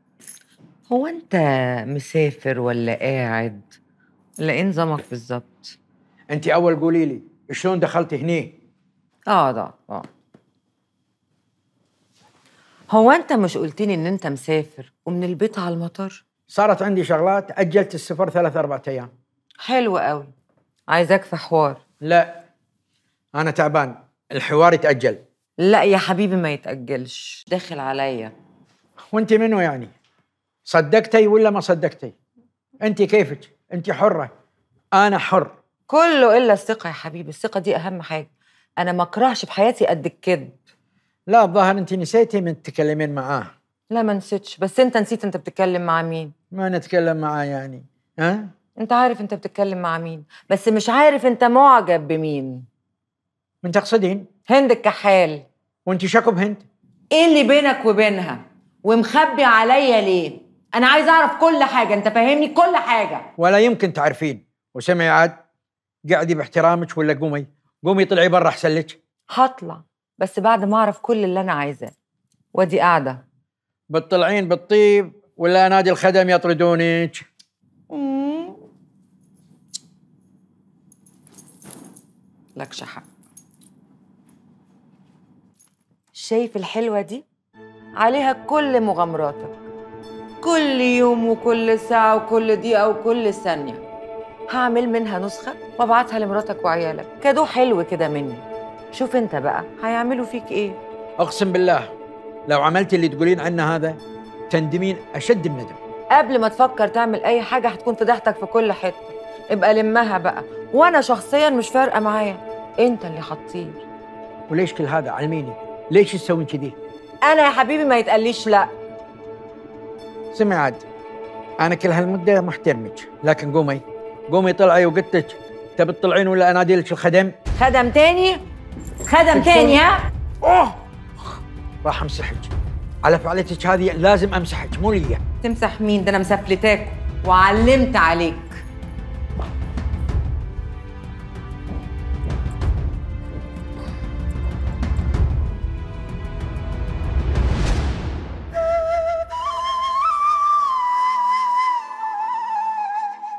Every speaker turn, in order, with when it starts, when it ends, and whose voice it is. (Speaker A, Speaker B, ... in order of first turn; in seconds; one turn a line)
Speaker A: 0.9-3.7
Speaker A: 4.4-5.8
Speaker B: 6.3-8.5
Speaker A: 9.3-10.1
Speaker A: 12.9-16.2
Speaker B: 16.5-19.1
Speaker A: 19.6-20.3
Speaker A: 20.9-21.8
Speaker B: 22.0-22.4
Speaker B: 23.3-25.2
Speaker A: 25.6-28.3
Speaker B: 29.1-29.9
Speaker B: 30.7-32.1
Speaker B: 32.8-34.3
Speaker B: 34.9-35.5
Speaker A: 35.9-38.3
Speaker A: 38.8-40.5
Speaker B: 41.3-43.5
Speaker A: 43.9-46.3
Speaker B: 46.5-48.5
Speaker A: 48.8-52.6
Speaker B: 53.6-54.3
Speaker A: 54.5-55.4
Speaker B: 55.9-56.6
Speaker A: 57.1-63.3
Speaker B: 63.4-65.3
Speaker B: 66.1-69.0
Speaker A: 69.3-71.9
Speaker A: 72.5-73.2
Speaker B: 73.9-77.2
Speaker A: 77.9-78.6
Speaker A: 82.6-83.0
Speaker A: 86.1-87.2
Speaker A: 88.0-89.5
Speaker A: 90.4-93.8
Speaker A: 94.5-100.8
Speaker B: 101.2-101.9
Speaker B: 102.5-105.8
Speaker A: 106.1-113.8
Speaker B: 114.5-116.8
Speaker A: 117.2-118.7
Speaker B: 120.3-120.8
Speaker B: 121.6-127.3
Speaker A: 127.6-128.4
Speaker A: 129.1-130.0
Speaker B: 130.4-130.8
Speaker B: 131.8-132.5
Speaker B: 133.0-135.2
Speaker A: 135.4-138.6